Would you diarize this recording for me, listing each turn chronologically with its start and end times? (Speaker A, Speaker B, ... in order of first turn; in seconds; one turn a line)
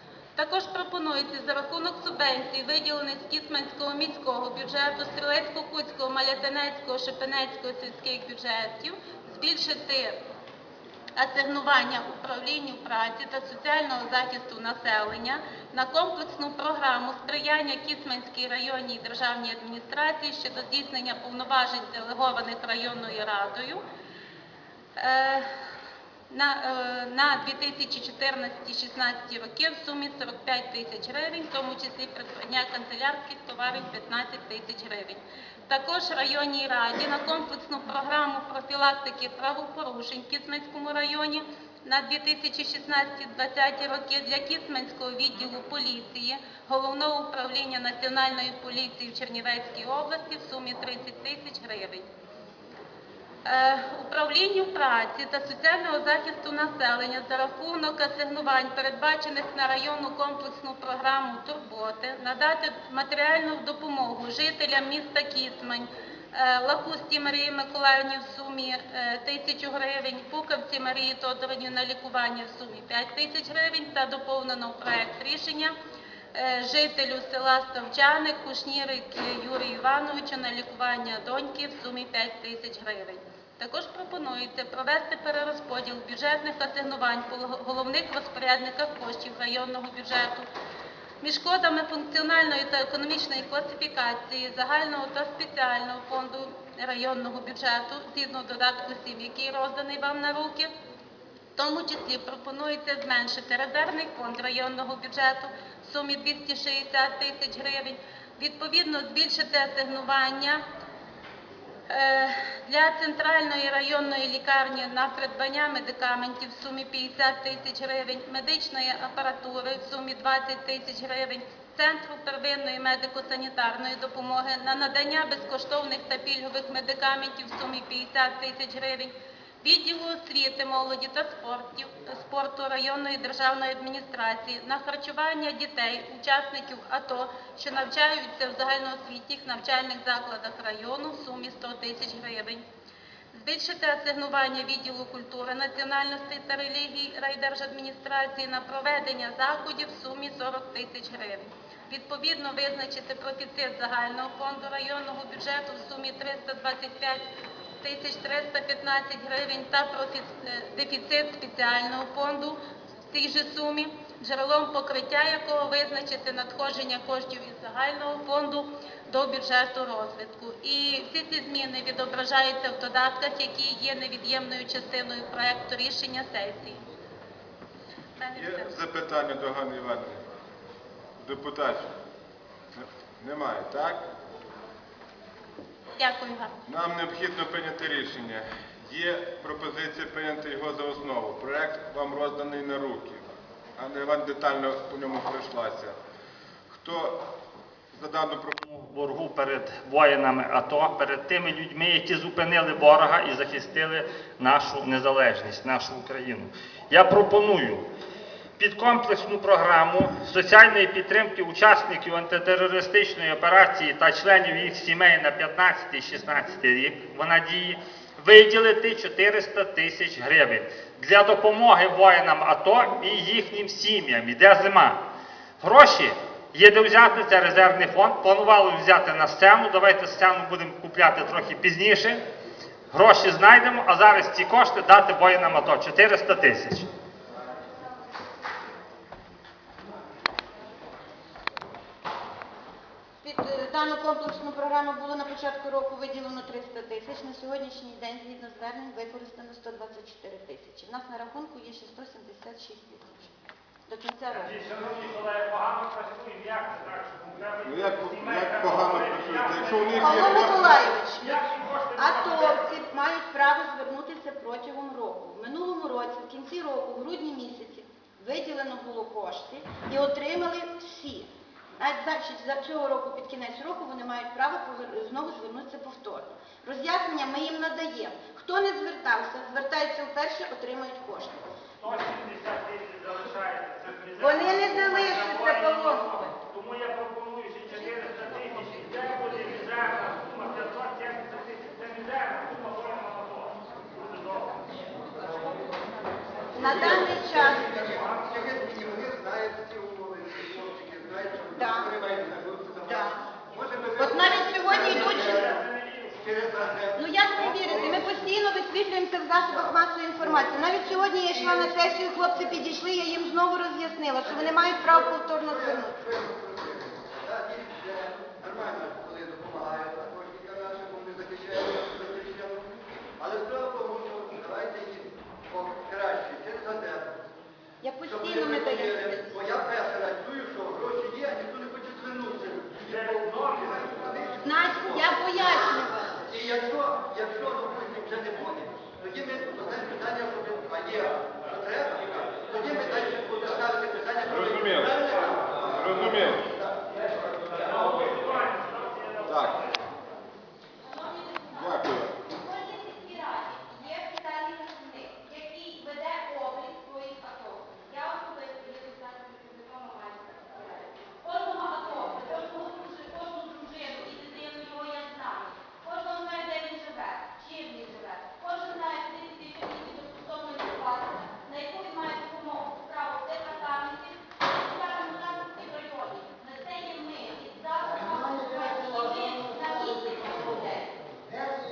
Speaker A: 0.4-10.2
Speaker A: 11.2-23.8
Speaker A: 25.0-25.5
Speaker A: 26.3-52.1
Speaker A: 53.5-75.8
Speaker A: 76.3-90.5
Speaker A: 91.2-100.7
Speaker A: 101.6-110.6
Speaker A: 111.9-142.6
Speaker A: 143.3-157.3
Speaker A: 157.8-162.6
Speaker A: 163.1-176.9
Speaker A: 178.2-178.8
Speaker B: 178.4-180.2
Speaker B: 181.2-181.9
Speaker B: 182.7-184.0
Speaker A: 186.0-186.6
Speaker B: 186.7-193.3
Speaker B: 193.8-196.0
Speaker B: 196.7-197.2
Speaker B: 197.9-198.8
Speaker C: 198.8-207.8
Speaker C: 208.6-225.0
Speaker C: 225.6-232.2
Speaker C: 232.9-236.9
Speaker D: 243.2-253.3
Speaker D: 253.9-254.6
Speaker C: 254.3-262.8
Speaker B: 257.6-260.9
Speaker D: 259.9-281.5
Speaker C: 281.8-294.8
Speaker D: 284.2-286.3
Speaker D: 296.5-297.7
Speaker E: 296.6-305.5
Speaker C: 296.6-297.1
Speaker C: 297.9-298.2
Speaker D: 301.6-301.9
Speaker D: 302.8-303.2
Speaker D: 304.0-305.5
Speaker C: 304.7-306.2
Speaker E: 306.2-308.2
Speaker D: 307.0-315.9
Speaker E: 310.2-311.8
Speaker E: 314.2-327.2
Speaker D: 327.8-329.2
Speaker E: 328.0-346.8
Speaker C: 332.9-333.8
Speaker D: 334.4-336.2
Speaker B: 344.3-345.0
Speaker B: 345.6-346.4
Speaker C: 347.6-349.6
Speaker B: 349.3-349.6
Speaker D: 350.8-351.7
Speaker B: 351.6-352.1
Speaker D: 352.3-381.0